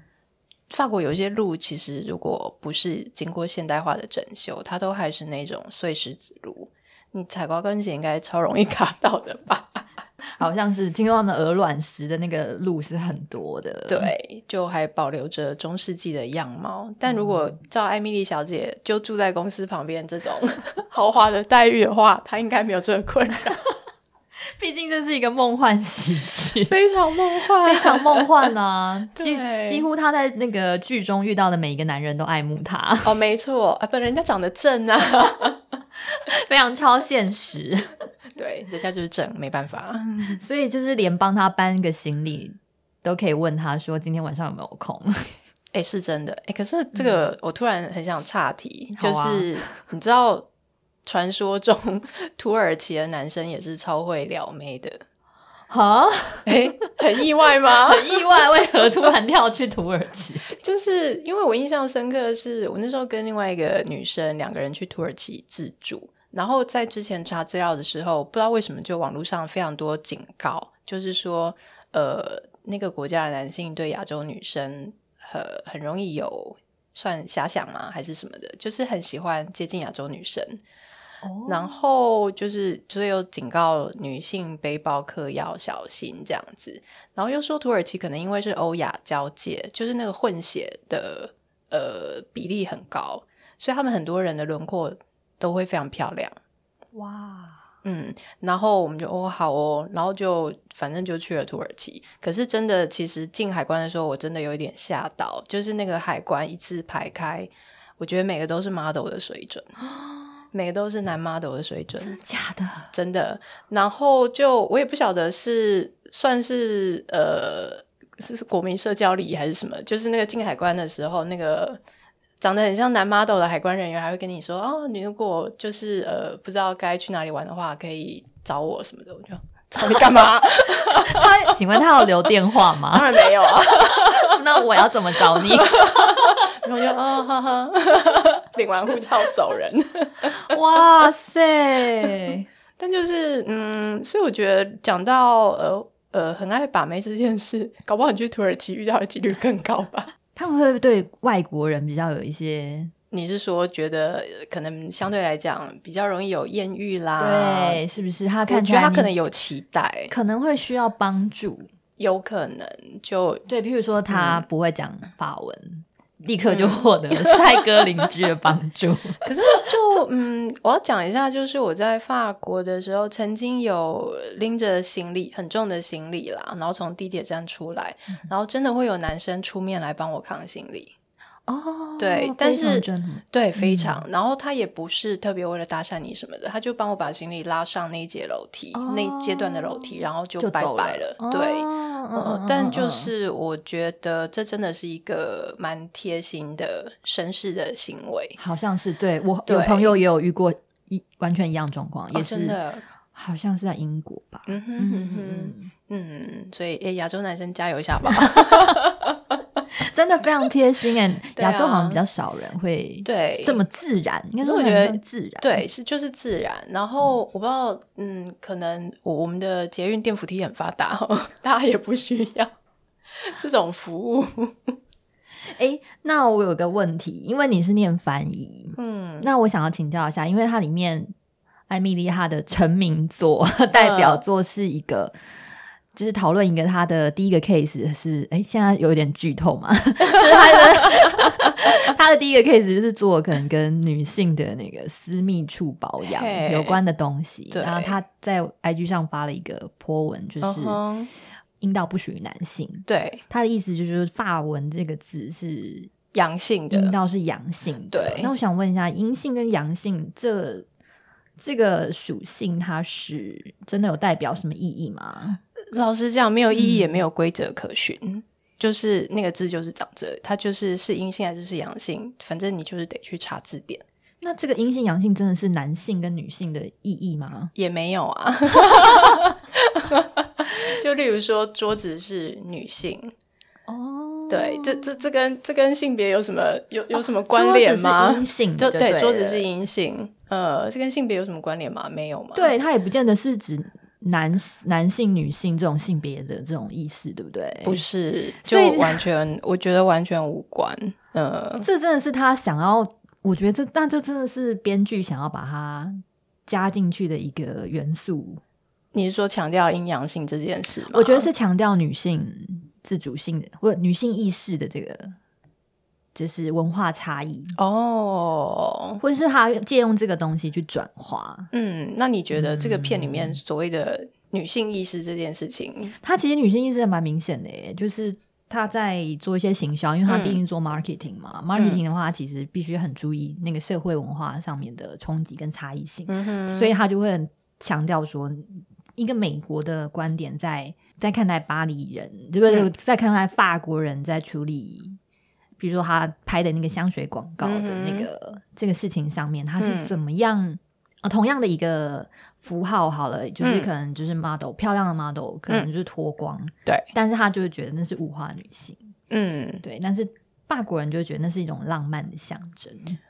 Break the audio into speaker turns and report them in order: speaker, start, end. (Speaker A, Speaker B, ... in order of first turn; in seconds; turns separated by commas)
Speaker A: 0.7-9.9, Speaker B: 10.4-14.1, Speaker A: 13.9-23.6, Speaker B: 24.6-26.7, Speaker A: 26.7-28.5, Speaker B: 27.6-33.1, Speaker A: 29.1-29.8, Speaker A: 33.0-35.6, Speaker B: 36.1-38.0, Speaker A: 38.3-40.4, Speaker B: 40.4-45.3, Speaker A: 45.7-50.5, Speaker B: 49.0-49.7, Speaker A: 51.0-55.0, Speaker B: 55.7-57.0, Speaker A: 56.5-58.2, Speaker B: 57.6-60.5, Speaker A: 60.5-80.6, Speaker B: 81.2-81.8, Speaker A: 81.5-96.3, Speaker B: 96.9-97.7, Speaker A: 97.8-109.7, Speaker B: 109.8-110.5, Speaker A: 110.5-112.2, Speaker B: 112.0-112.9, Speaker A: 112.9-121.8, Speaker A: 122.4-131.5, Speaker B: 130.8-136.5, Speaker A: 132.9-134.4, Speaker A: 135.3-140.3, Speaker B: 140.4-142.4, Speaker A: 142.8-150.1, Speaker B: 150.3-152.9, Speaker A: 153.1-157.8, Speaker B: 157.2-159.1, Speaker A: 158.5-160.1, Speaker B: 160.1-161.7, Speaker A: 162.0-163.4, Speaker B: 163.5-169.2, Speaker A: 164.1-164.4, Speaker A: 166.5-167.6, Speaker A: 169.2-180.9, Speaker B: 181.5-184.0, Speaker A: 182.0-198.4, Speaker B: 188.7-193.1, Speaker B: 198.4-202.6, Speaker A: 199.5-200.0, Speaker A: 202.1-202.8, Speaker B: 203.1-205.7, Speaker A: 204.5-209.3, Speaker B: 208.1-208.8, Speaker B: 209.8-215.6, Speaker A: 211.3-212.0, Speaker A: 213.0-213.6, Speaker A: 214.4-222.5, Speaker A: 223.2-224.8, Speaker B: 225.6-231.1, Speaker A: 228.8-229.3, Speaker B: 231.7-235.1, Speaker A: 233.7-234.2, Speaker B: 235.9-250.8, Speaker A: 240.2-240.6, Speaker A: 246.0-246.8, Speaker A: 247.5-248.0, Speaker A: 250.4-251.1, Speaker B: 251.6-255.9, Speaker A: 252.9-253.2, Speaker A: 256.1-256.9, Speaker B: 256.7-260.6, Speaker A: 257.9-258.3, Speaker B: 261.4-265.4, Speaker A: 265.7-273.8, Speaker B: 266.5-267.0, Speaker B: 274.2-277.5, Speaker A: 277.5-283.1, Speaker B: 283.7-284.9, Speaker A: 284.3-292.5, Speaker B: 286.9-289.5, Speaker B: 292.3-297.8, Speaker A: 297.6-301.6, Speaker B: 298.4-299.1, Speaker B: 301.6-308.4, Speaker A: 308.9-311.3, Speaker B: 310.9-315.2, Speaker B: 316.1-317.6, Speaker A: 317.6-319.0, Speaker B: 319.0-321.5, Speaker A: 321.5-325.9, Speaker B: 322.3-323.4, Speaker B: 326.0-345.0, Speaker A: 330.1-330.4, Speaker A: 331.6-331.8, Speaker A: 336.1-336.7, Speaker B: 345.6-358.9, Speaker A: 347.4-348.1, Speaker A: 349.6-349.9, Speaker A: 353.4-353.7, Speaker A: 359.1-359.6, Speaker B: 359.6-363.0